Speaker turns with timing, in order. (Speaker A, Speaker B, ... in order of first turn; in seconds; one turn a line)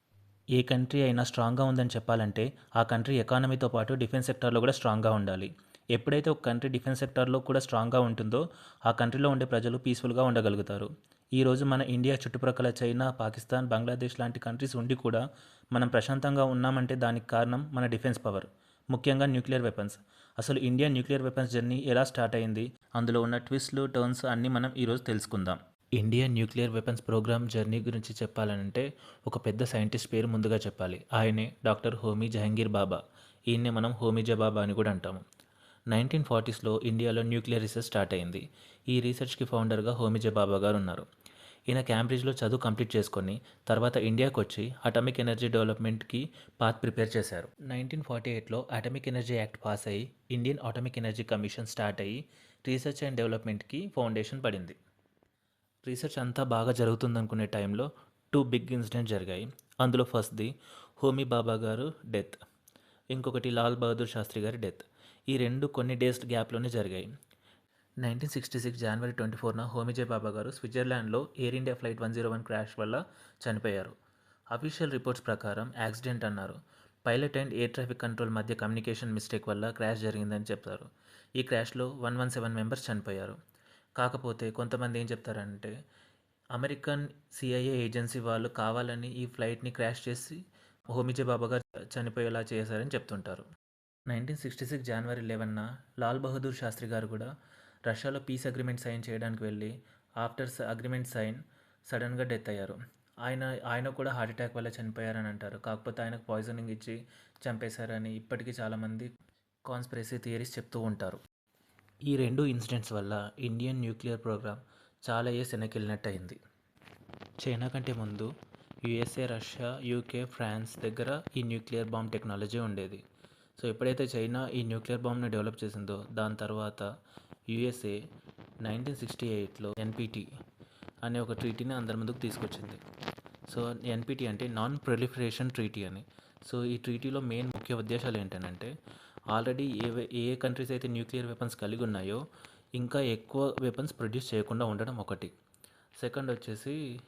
Speaker A: 0.5-15.2
Speaker A: 15.7-35.2
Speaker A: 35.9-41.0
Speaker A: 41.7-54.8
Speaker A: 55.9-62.4
Speaker A: 63.1-67.1
Speaker A: 68.0-73.9
Speaker A: 74.5-83.4
Speaker A: 84.0-85.7
Speaker A: 86.5-93.5
Speaker A: 94.1-97.3
Speaker A: 97.9-109.1
Speaker A: 109.7-111.2
Speaker A: 112.0-116.4
Speaker A: 117.4-118.3
Speaker A: 118.8-123.0
Speaker A: 123.6-126.9
Speaker A: 127.5-128.0
Speaker A: 128.6-130.3
Speaker A: 131.0-132.8
Speaker A: 133.5-138.7
Speaker A: 139.3-142.2
Speaker A: 142.8-145.3
Speaker A: 146.0-146.8